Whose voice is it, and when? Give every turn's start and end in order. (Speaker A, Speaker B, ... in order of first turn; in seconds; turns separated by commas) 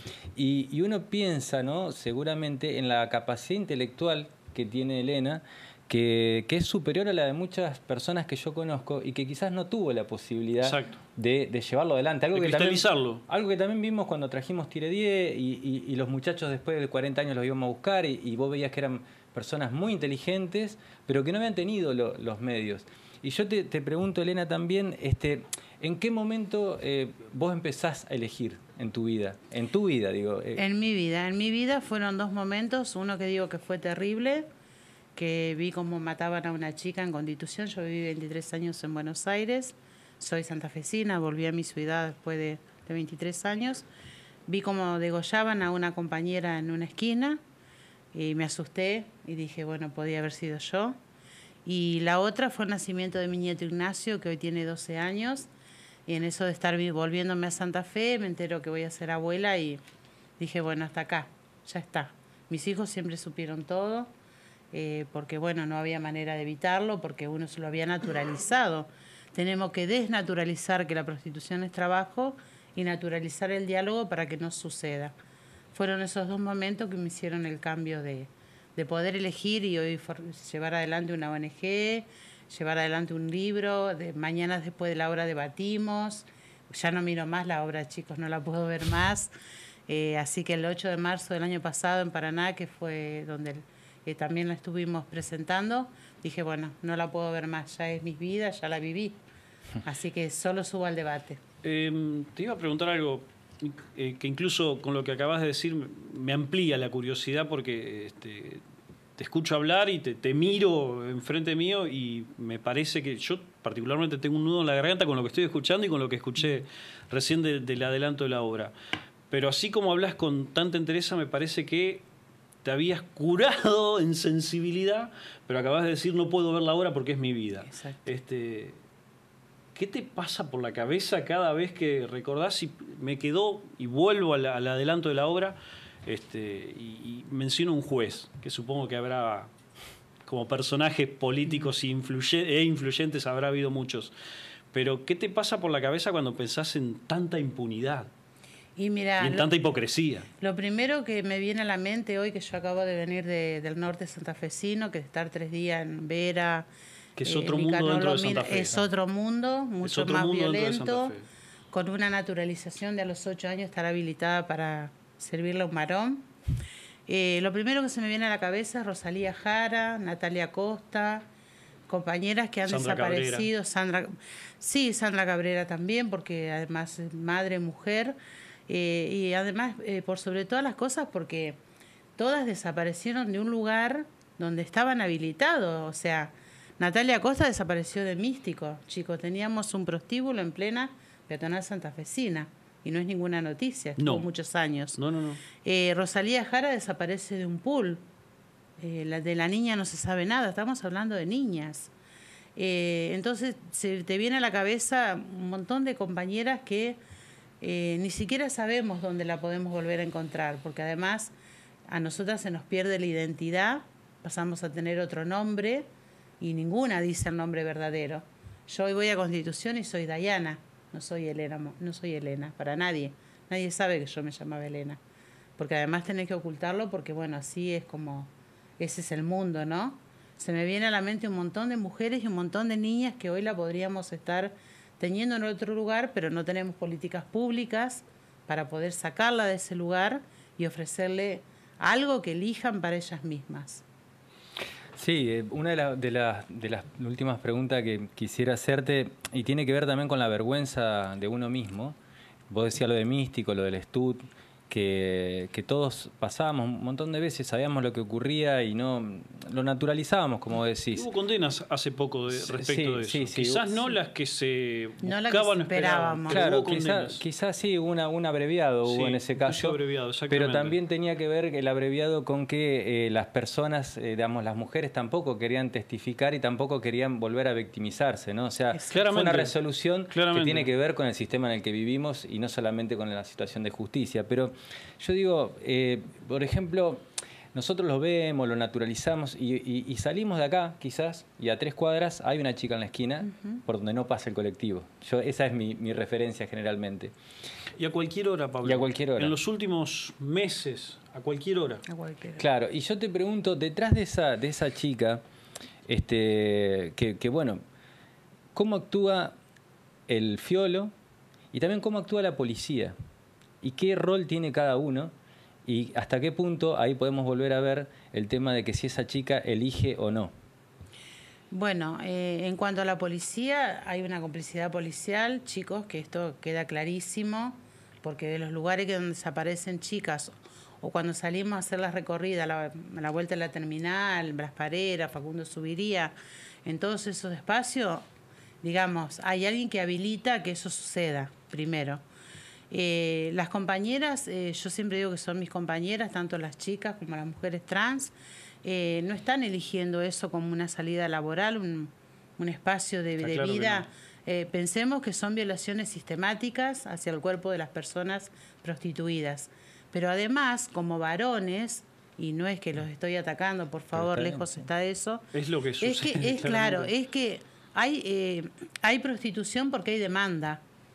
Speaker A: 0.4-30.6, Speaker B: 10.6-11.0, Speaker B: 12.3-13.2, Speaker C: 30.6-34.5, Speaker C: 35.1-43.9, Speaker C: 44.5-47.4, Speaker C: 48.1-51.0, Speaker C: 51.6-55.5, Speaker C: 56.1-59.8, Speaker C: 60.4-64.1, Speaker C: 64.7-75.1, Speaker C: 75.7-89.3, Speaker C: 89.9-99.2, Speaker C: 99.8-101.4, Speaker B: 101.6-108.6, Speaker B: 109.2-118.7, Speaker B: 119.3-122.0, Speaker B: 122.6-128.8, Speaker C: 127.7-128.0, Speaker B: 129.8-139.5, Speaker B: 140.2-144.1, Speaker B: 144.7-148.1, Speaker C: 148.8-149.5, Speaker B: 149.2-150.3, Speaker C: 150.4-156.7, Speaker B: 157.2-158.8, Speaker C: 157.2-161.1, Speaker B: 159.8-161.2, Speaker C: 161.7-166.3, Speaker C: 167.1-171.2, Speaker C: 171.9-178.2, Speaker B: 172.7-173.5, Speaker C: 178.7-181.6, Speaker C: 182.2-195.0, Speaker B: 194.0-194.3, Speaker B: 194.9-195.4, Speaker C: 195.6-198.0, Speaker C: 198.8-201.9, Speaker C: 202.6-207.0, Speaker C: 207.6-211.3, Speaker C: 211.9-215.9, Speaker C: 216.4-225.0, Speaker C: 225.6-243.8, Speaker A: 245.0-252.0, Speaker A: 252.5-261.1, Speaker B: 260.9-267.2, Speaker A: 262.3-263.8, Speaker C: 265.0-266.4, Speaker A: 266.3-269.8, Speaker B: 268.8-270.8, Speaker A: 270.3-287.0, Speaker C: 278.7-279.0, Speaker B: 278.9-279.6, Speaker B: 280.1-280.7, Speaker A: 287.5-297.1, Speaker C: 293.2-293.6, Speaker B: 297.8-301.8, Speaker A: 298.6-299.4, Speaker C: 301.9-302.5, Speaker A: 302.4-305.2, Speaker A: 305.9-307.6, Speaker A: 308.6-309.4, Speaker A: 310.1-310.9, Speaker A: 311.5-312.9, Speaker A: 313.6-315.1, Speaker A: 315.7-320.3, Speaker C: 321.5-338.0, Speaker C: 338.6-342.0, Speaker C: 342.7-365.2, Speaker B: 353.2-353.9, Speaker A: 363.9-364.5, Speaker B: 365.3-366.9, Speaker C: 365.8-370.6